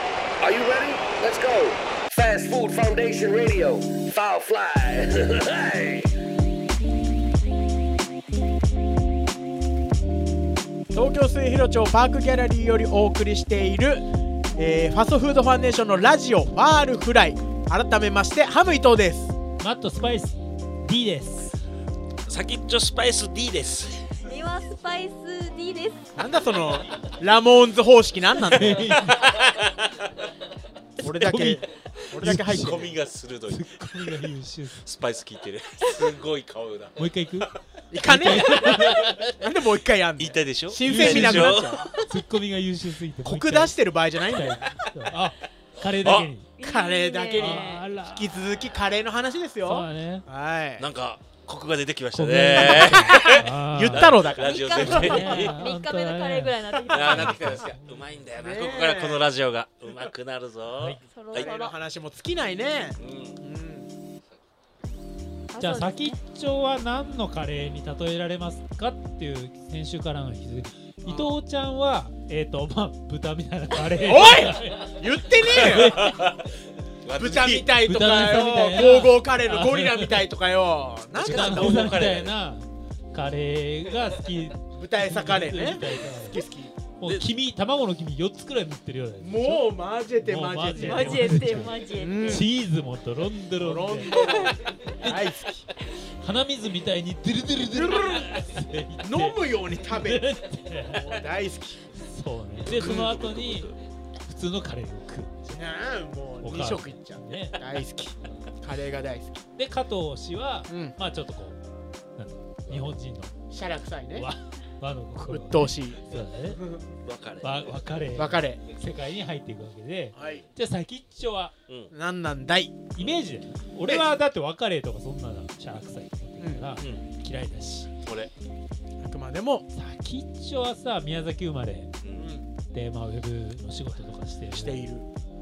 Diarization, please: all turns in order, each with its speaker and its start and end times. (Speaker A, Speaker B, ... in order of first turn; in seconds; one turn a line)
Speaker A: 0.4-6.1
Speaker B: 10.9-14.0
Speaker B: 14.6-19.3
Speaker C: 19.6-21.6
Speaker D: 22.3-24.1
Speaker E: 24.2-26.1
Speaker B: 26.1-28.9
Speaker C: 28.5-29.2
Speaker D: 28.9-29.9
Speaker B: 31.0-33.0
Speaker D: 31.0-31.6
Speaker C: 31.3-31.6
Speaker C: 32.2-32.9
Speaker D: 32.3-37.1
Speaker C: 33.5-34.8
Speaker C: 37.0-39.1
Speaker B: 37.9-41.9
Speaker D: 38.4-39.2
Speaker D: 40.2-42.0
Speaker C: 40.8-43.7
Speaker B: 43.2-44.8
Speaker C: 44.3-46.5
Speaker D: 46.0-46.3
Speaker E: 46.6-47.9
Speaker B: 46.6-50.8
Speaker C: 47.3-48.4
Speaker C: 49.6-50.2
Speaker D: 50.8-55.6
Speaker C: 52.1-57.7
Speaker B: 52.3-55.3
Speaker E: 54.3-57.6
Speaker D: 56.9-61.5
Speaker B: 58.3-59.3
Speaker E: 61.1-61.8
Speaker B: 61.3-63.9
Speaker D: 63.0-63.4
Speaker E: 65.5-66.2
Speaker C: 65.6-76.2
Speaker B: 71.0-71.4
Speaker B: 74.0-76.0
Speaker D: 75.6-76.4
Speaker D: 77.0-77.7
Speaker B: 77.2-81.9
Speaker C: 77.8-80.3
Speaker D: 81.1-82.3
Speaker C: 81.2-86.4
Speaker B: 84.8-86.7
Speaker C: 87.0-94.3
Speaker D: 87.0-87.3
Speaker B: 89.2-92.5
Speaker E: 90.7-92.4
Speaker B: 93.6-95.7
Speaker E: 94.2-94.5
Speaker C: 96.2-101.1
Speaker B: 97.7-98.4
Speaker B: 99.0-100.3
Speaker B: 100.8-101.8
Speaker C: 102.0-103.7
Speaker D: 102.6-103.7
Speaker B: 102.7-103.2
Speaker C: 104.2-105.6
Speaker B: 105.5-109.4
Speaker C: 106.4-107.6
Speaker C: 109.5-111.6
Speaker B: 110.7-111.0
Speaker C: 112.2-113.3
Speaker B: 113.5-114.3
Speaker C: 114.1-116.6
Speaker B: 115.2-116.9
Speaker D: 117.0-117.9
Speaker C: 117.4-121.5
Speaker B: 118.1-118.6
Speaker B: 120.1-120.4
Speaker D: 121.7-121.9
Speaker B: 121.9-122.8
Speaker C: 122.9-127.9
Speaker B: 126.4-126.8
Speaker D: 126.8-127.0
Speaker D: 128.0-128.3
Speaker B: 129.0-129.7
Speaker C: 129.7-131.9
Speaker D: 132.0-132.3
Speaker B: 132.2-132.4
Speaker C: 132.7-134.9
Speaker B: 134.5-135.1